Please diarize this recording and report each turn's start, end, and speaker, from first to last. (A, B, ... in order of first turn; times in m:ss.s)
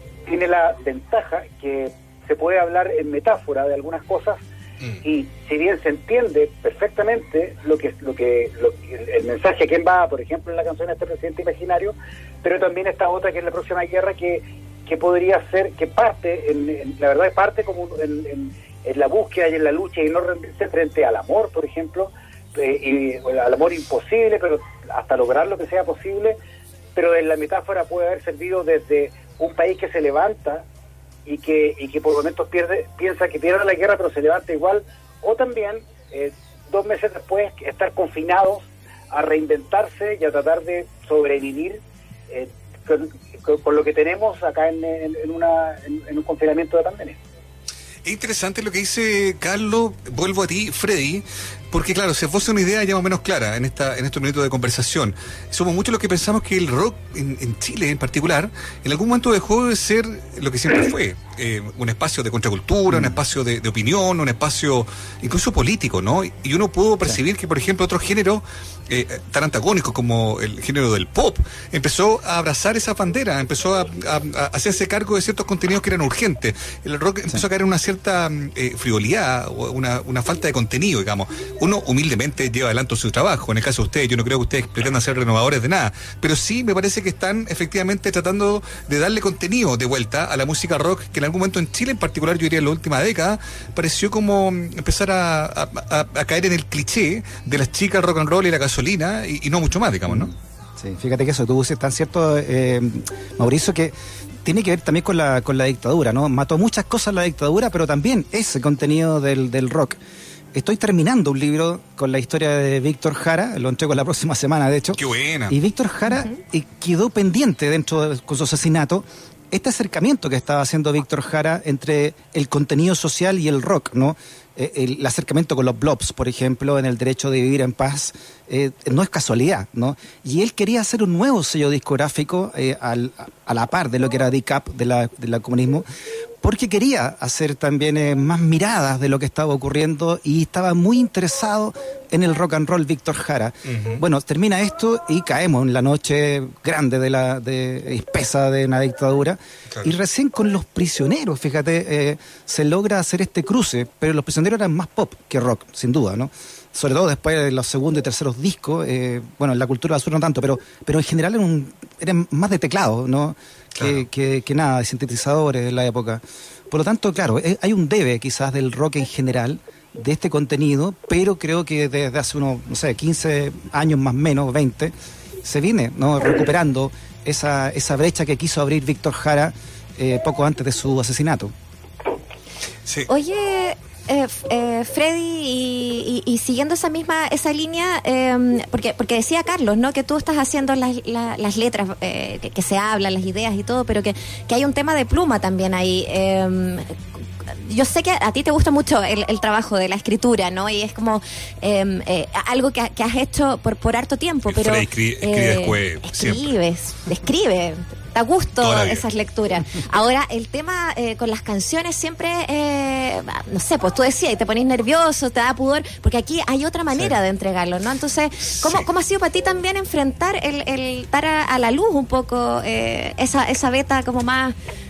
0:00.3-0:04.4 A
0:05.0-0:26.4 A
0:26.9-0:30.6 A
0:31.2-0:47.2 A
0:48.0-1:40.3 B
1:02.9-1:03.2 C
1:40.1-1:50.0 C
1:50.5-2:15.9 C
1:54.9-1:55.6 B
2:16.4-2:54.9 C
2:23.7-2:24.0 B
2:43.7-2:44.0 B
2:55.4-3:01.5 C
3:03.1-3:44.6 D
3:24.5-3:26.5 B
3:28.6-3:29.1 B
3:38.5-3:38.9 B